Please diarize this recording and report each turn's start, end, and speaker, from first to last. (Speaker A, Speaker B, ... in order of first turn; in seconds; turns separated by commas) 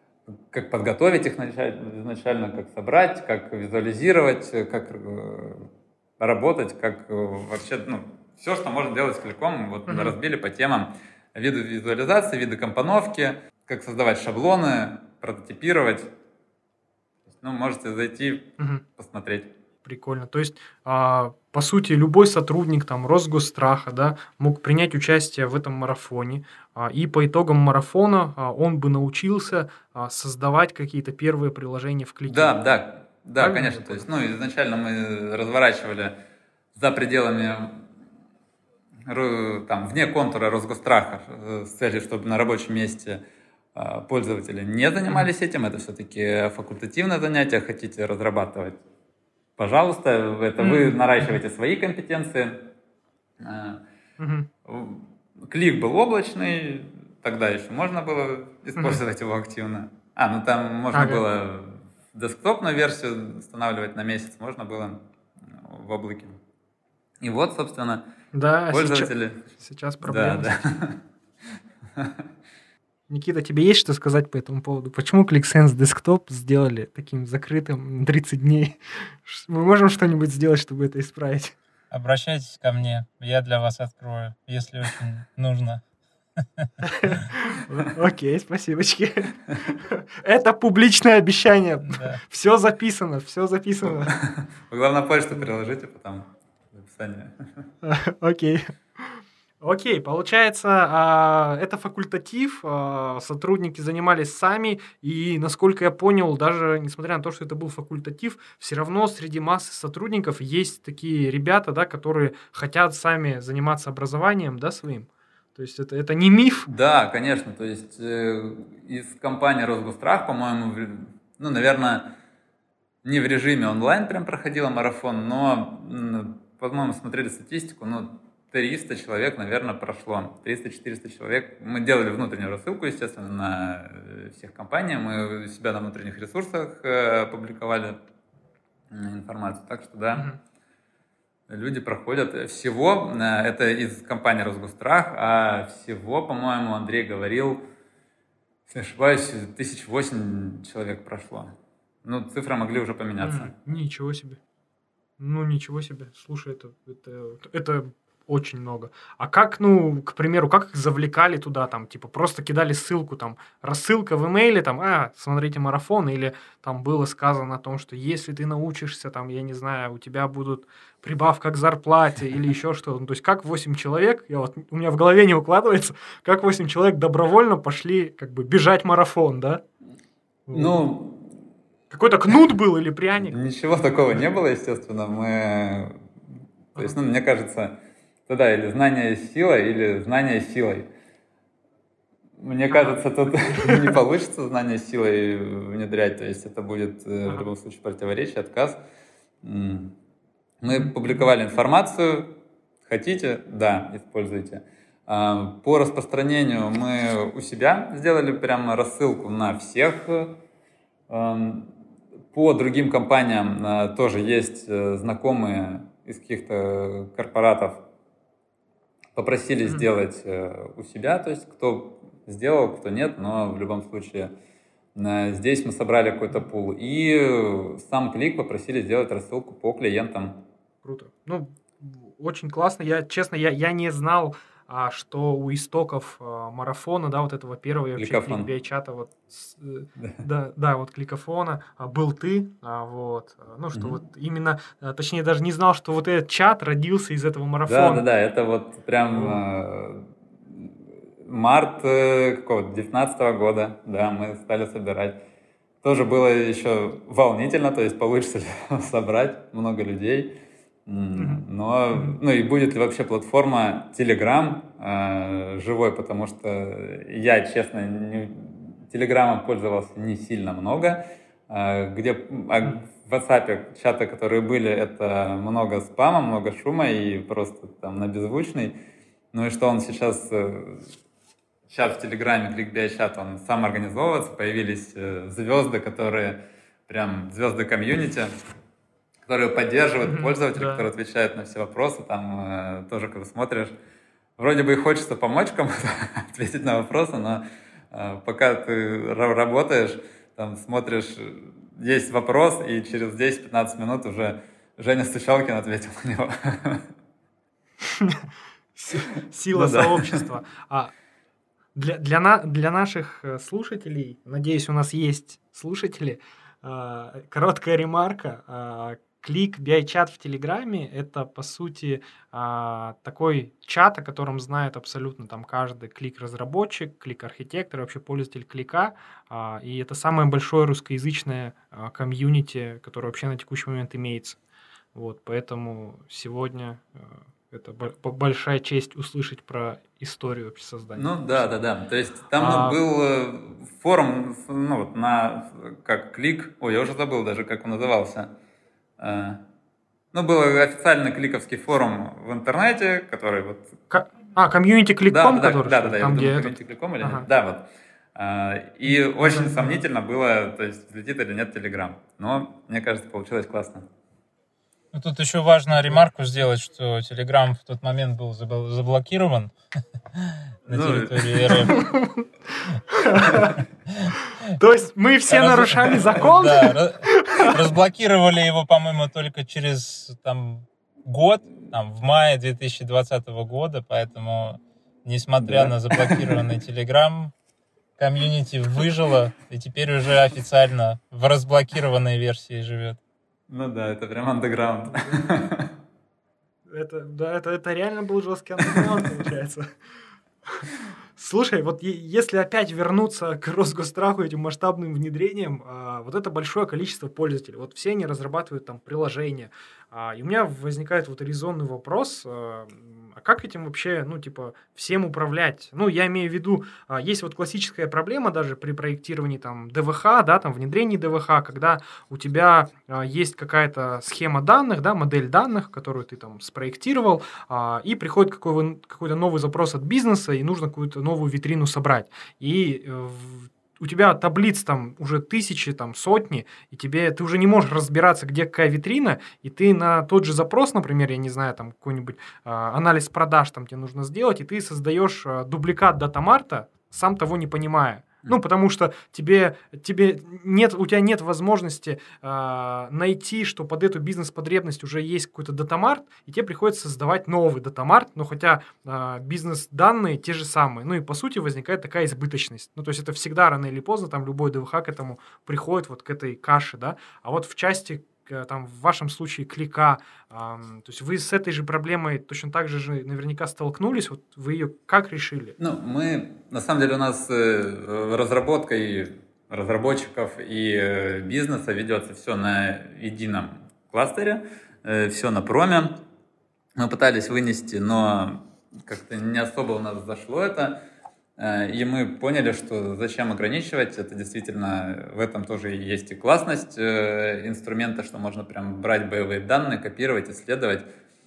Speaker A: 0.5-16.1, Speaker B: 9.9-10.1, Speaker A: 17.3-19.5, Speaker B: 19.8-32.6, Speaker A: 32.3-36.2, Speaker B: 33.4-34.0, Speaker A: 36.7-37.8, Speaker A: 39.1-43.2, Speaker A: 43.7-48.8, Speaker A: 49.6-52.7, Speaker B: 50.6-51.3, Speaker A: 53.4-53.8, Speaker B: 54.2-54.5, Speaker A: 54.6-66.4, Speaker B: 58.8-59.0, Speaker B: 60.9-61.2, Speaker A: 67.2-68.0, Speaker B: 68.3-70.6, Speaker A: 68.7-69.5, Speaker A: 70.0-71.0, Speaker B: 73.1-81.5, Speaker C: 81.9-85.8, Speaker B: 86.8-94.1, Speaker A: 93.9-97.7, Speaker B: 97.8-116.7, Speaker A: 116.7-122.2, Speaker A: 123.0-138.0, Speaker A: 138.9-140.3, Speaker A: 141.5-147.6, Speaker A: 148.7-151.5, Speaker A: 152.0-153.5, Speaker B: 153.2-154.4, Speaker B: 155.2-179.6, Speaker B: 180.5-180.8, Speaker A: 180.5-181.3, Speaker B: 181.9-183.4, Speaker A: 183.2-186.0, Speaker A: 186.7-190.9, Speaker A: 192.4-198.8, Speaker B: 192.7-194.0, Speaker A: 199.4-199.9, Speaker A: 200.6-202.3, Speaker A: 202.8-210.4, Speaker A: 211.1-211.7, Speaker A: 212.3-217.8, Speaker A: 219.1-224.3, Speaker A: 224.9-230.4, Speaker B: 230.8-248.0, Speaker A: 237.9-238.5, Speaker A: 243.7-244.0, Speaker A: 247.7-255.2, Speaker B: 249.1-249.4, Speaker A: 255.8-278.8, Speaker B: 261.1-262.2, Speaker A: 279.3-280.9, Speaker A: 281.7-288.3, Speaker A: 289.3-293.7, Speaker B: 290.0-290.9, Speaker A: 294.4-306.8, Speaker B: 307.8-310.9, Speaker A: 308.9-310.2, Speaker B: 311.7-334.4, Speaker B: 334.9-341.5, Speaker A: 340.9-348.3, Speaker B: 342.4-342.8, Speaker A: 349.0-349.4, Speaker A: 350.1-353.8, Speaker B: 353.9-357.3, Speaker A: 355.1-363.8, Speaker B: 358.9-359.8, Speaker C: 364.9-369.5, Speaker C: 370.1-371.9, Speaker A: 370.7-371.7, Speaker B: 371.5-372.3, Speaker B: 372.9-373.6, Speaker C: 373.2-374.1, Speaker B: 374.5-377.6, Speaker C: 375.3-387.3, Speaker A: 385.4-386.3, Speaker C: 388.0-393.0, Speaker A: 393.5-395.7, Speaker B: 394.9-395.4, Speaker B: 396.7-399.7, Speaker B: 400.5-475.6, Speaker A: 475.6-486.0, Speaker A: 486.8-490.8, Speaker A: 491.4-500.9